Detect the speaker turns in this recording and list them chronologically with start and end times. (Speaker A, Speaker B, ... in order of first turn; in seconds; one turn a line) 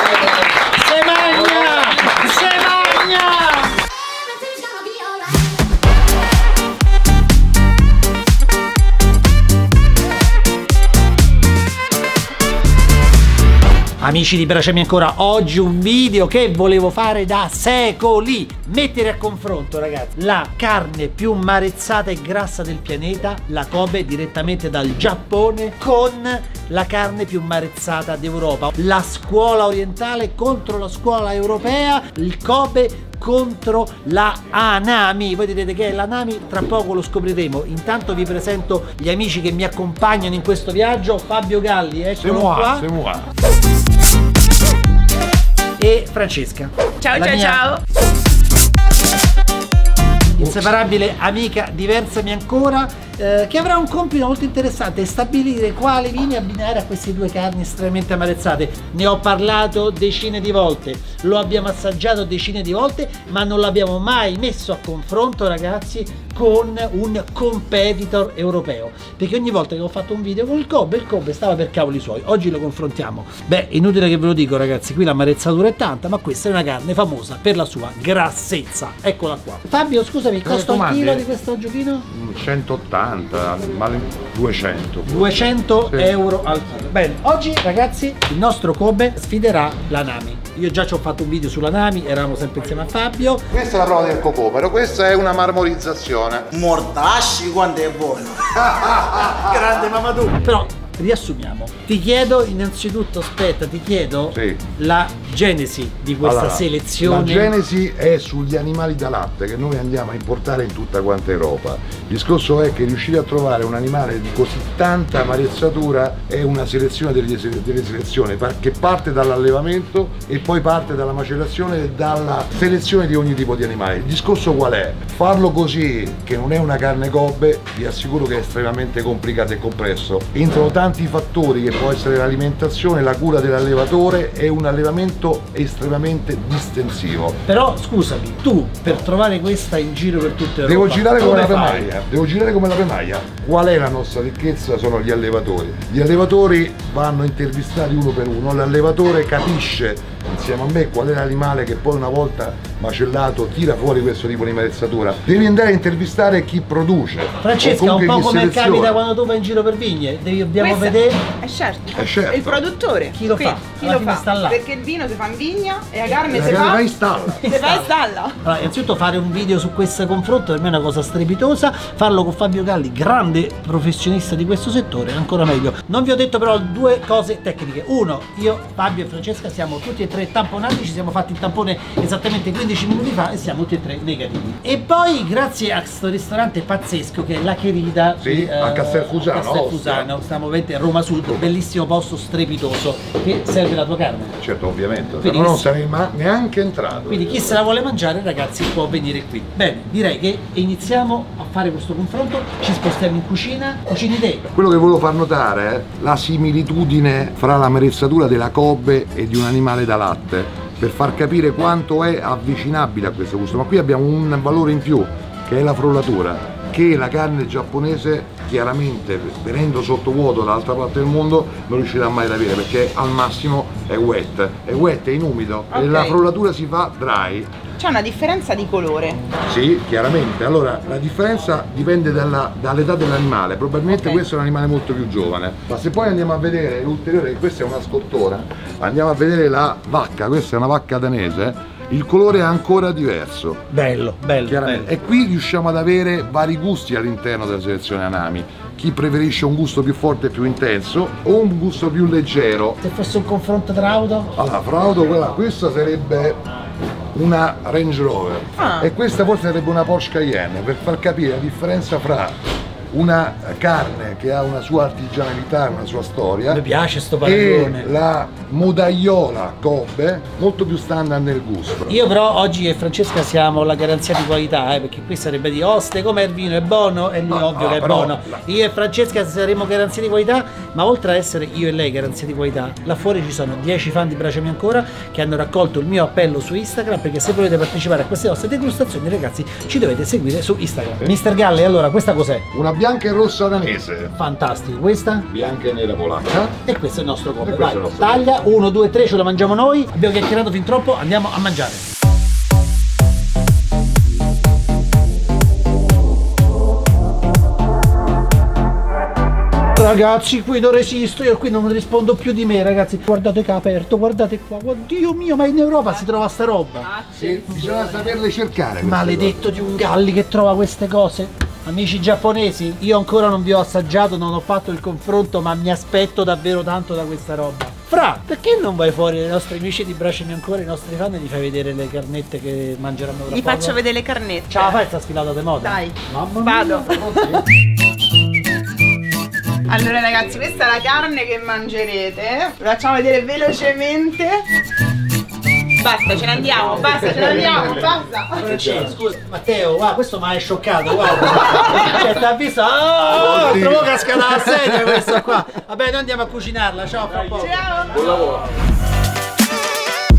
Speaker A: 0.5-3.8
Speaker A: 14.0-42.9
Speaker B: 42.2-43.3
Speaker A: 45.8-47.6
Speaker C: 47.0-47.8
Speaker A: 50.4-82.1
Speaker B: 80.4-81.2
Speaker B: 82.1-86.2
Speaker A: 85.0-93.5
Speaker B: 93.5-96.5
Speaker D: 96.5-98.5
Speaker B: 98.5-99.6
Speaker A: 99.5-107.5
Speaker B: 104.3-104.6
Speaker B: 106.2-137.4
Speaker A: 137.4-141.9
Speaker B: 140.6-159.0
Speaker A: 157.4-161.2
Speaker C: 160.6-166.8
Speaker B: 161.9-162.6
Speaker A: 163.1-164.6
Speaker B: 166.3-167.4
Speaker A: 167.4-167.9
Speaker C: 167.4-168.3
Speaker A: 168.4-194.4
Speaker B: 188.2-190.1
Speaker B: 194.4-197.3
Speaker A: 195.2-195.6
Speaker A: 197.1-204.5
Speaker B: 204.5-227.5
Speaker C: 225.7-226.2
Speaker C: 227.8-229.2
Speaker B: 229.4-243.7
Speaker C: 233.9-234.2
Speaker A: 243.7-244.9
Speaker B: 244.4-252.8
Speaker A: 252.8-254.3
Speaker B: 254.4-256.4
Speaker B: 257.1-262.4
Speaker C: 258.6-258.9
Speaker B: 262.9-266.6
Speaker A: 266.5-267.9
Speaker B: 267.2-271.9
Speaker A: 271.9-292.4
Speaker B: 277.3-278.4
Speaker B: 292.5-294.1
Speaker A: 294.1-295.3
Speaker B: 295.3-296.6
Speaker A: 296.6-301.8
Speaker B: 297.4-298.3
Speaker A: 309.7-316.9
Speaker C: 316.8-318.2
Speaker B: 317.1-319.4
Speaker A: 318.8-333.8
Speaker C: 333.3-334.8
Speaker A: 334.5-336.9
Speaker C: 335.6-337.4
Speaker B: 336.9-337.4
Speaker C: 339.7-344.4
Speaker C: 345.8-348.4
Speaker A: 347.1-347.7
Speaker B: 347.2-347.7
Speaker A: 348.4-357.6
Speaker B: 348.5-348.9
Speaker B: 353.1-353.9
Speaker C: 357.3-358.3